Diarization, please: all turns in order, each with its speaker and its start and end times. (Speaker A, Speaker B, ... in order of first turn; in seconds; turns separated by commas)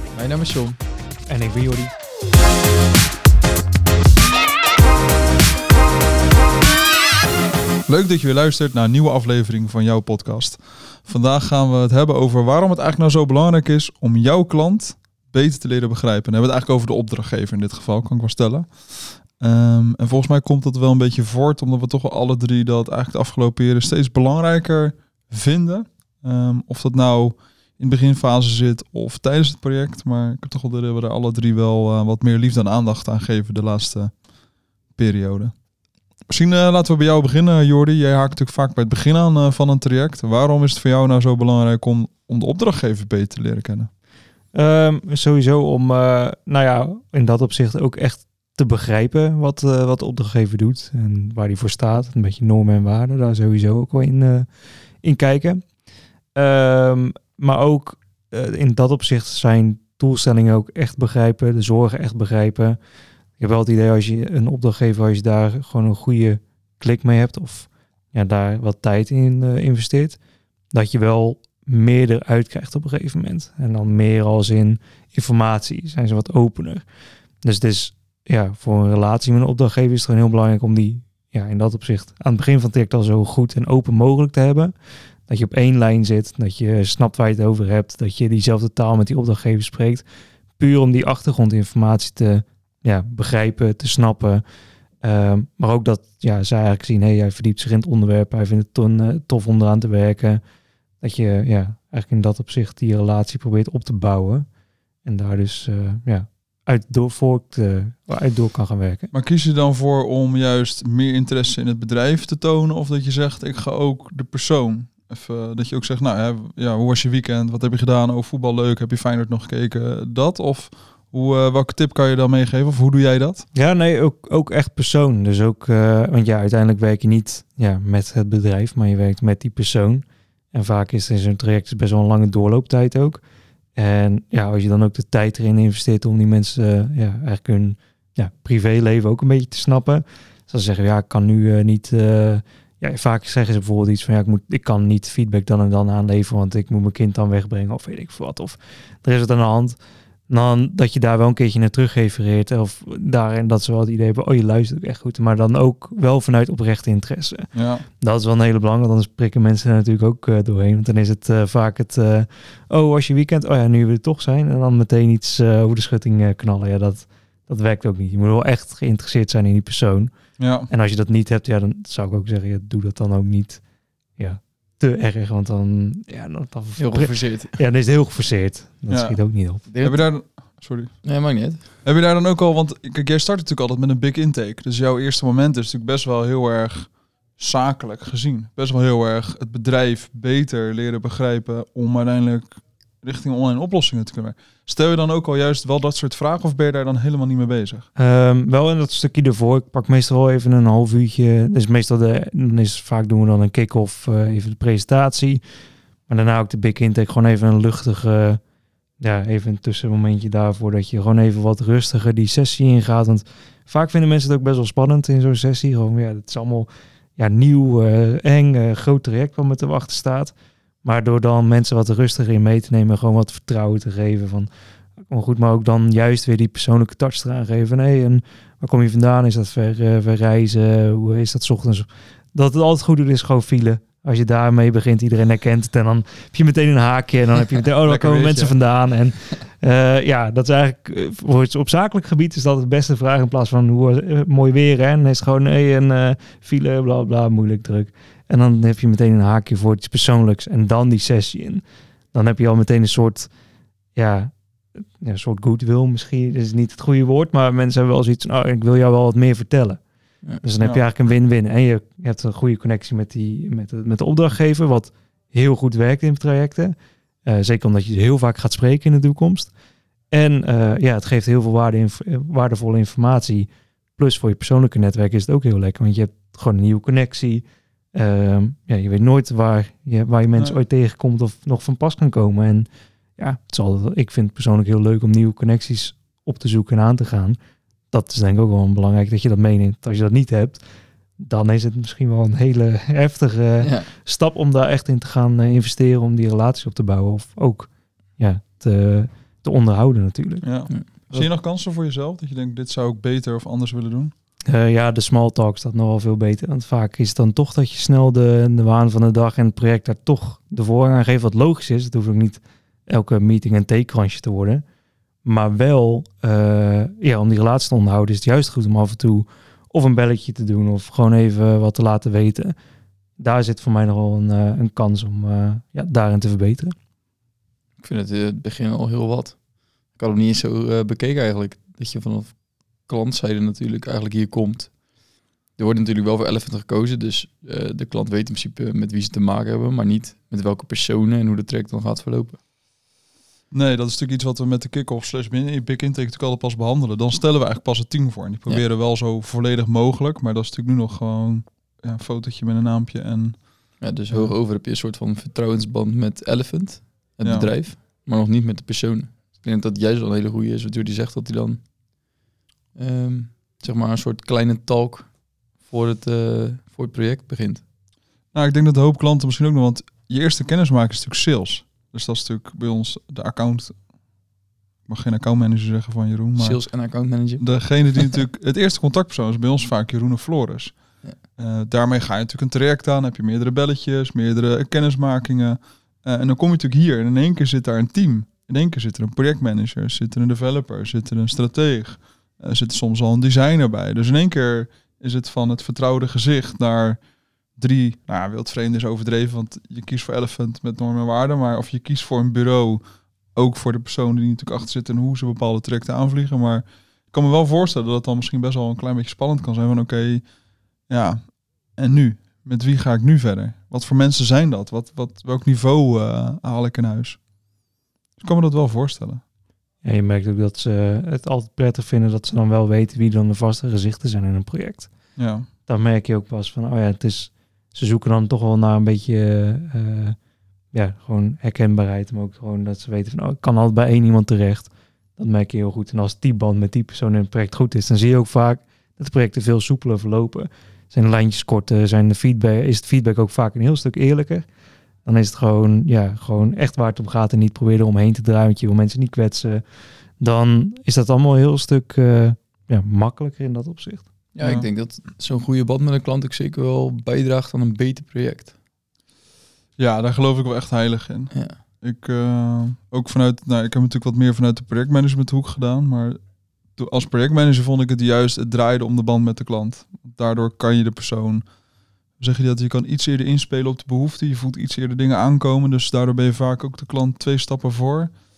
Speaker A: 0.1-0.8, Speaker B: 1.3-1.9, Speaker C: 7.8-34.2, Speaker C: 34.9-35.5, Speaker C: 36.3-43.9, Speaker B: 44.5-54.5, Speaker B: 55.0-55.6, Speaker B: 56.3-62.8, Speaker B: 63.4-70.2, Speaker B: 70.7-76.8, Speaker B: 77.4-84.7, Speaker B: 85.3-90.0, Speaker B: 90.6-94.4, Speaker B: 95.0-100.4, Speaker B: 101.0-104.5, Speaker B: 105.0-109.1, Speaker C: 109.1-123.5, Speaker B: 123.5-133.2, Speaker B: 133.8-149.8, Speaker B: 150.3-157.5, Speaker C: 157.5-157.8, Speaker B: 158.0-170.1, Speaker C: 170.4-170.7, Speaker B: 170.7-173.6, Speaker B: 174.2-179.6, Speaker A: 176.8-177.6, Speaker C: 178.9-181.0, Speaker A: 179.7-180.1, Speaker A: 181.0-181.6, Speaker C: 181.8-197.9, Speaker B: 198.0-205.4, Speaker B: 206.1-208.4, Speaker B: 209.0-224.5, Speaker B: 225.1-253.3, Speaker A: 237.9-238.6, Speaker B: 253.9-259.8, Speaker B: 260.4-266.7, Speaker B: 267.2-269.5, Speaker B: 270.1-287.4, Speaker B: 287.9-290.6, Speaker B: 291.2-300.5, Speaker A: 293.6-293.9, Speaker C: 300.4-304.1, Speaker B: 304.5-314.6, Speaker B: 315.2-322.5, Speaker B: 323.2-326.7, Speaker A: 327.8-334.8, Speaker A: 335.6-342.4, Speaker C: 343.5-354.3, Speaker A: 353.8-361.6, Speaker C: 357.2-357.5, Speaker A: 362.7-367.6, Speaker C: 368.3-373.8, Speaker C: 374.9-376.6, Speaker A: 376.4-377.6, Speaker C: 377.4-380.8, Speaker C: 381.4-397.0, Speaker C: 397.6-402.8, Speaker C: 403.3-410.2, Speaker C: 410.9-417.2, Speaker C: 418.2-419.2, Speaker B: 419.8-424.9, Speaker C: 425.1-425.5, Speaker B: 425.7-430.2, Speaker B: 430.7-444.4, Speaker B: 445.0-449.6, Speaker B: 450.2-454.1, Speaker A: 454.3-458.5, Speaker C: 454.4-454.7, Speaker C: 459.8-466.2, Speaker A: 461.3-461.6, Speaker C: 466.7-471.4, Speaker C: 472.2-478.1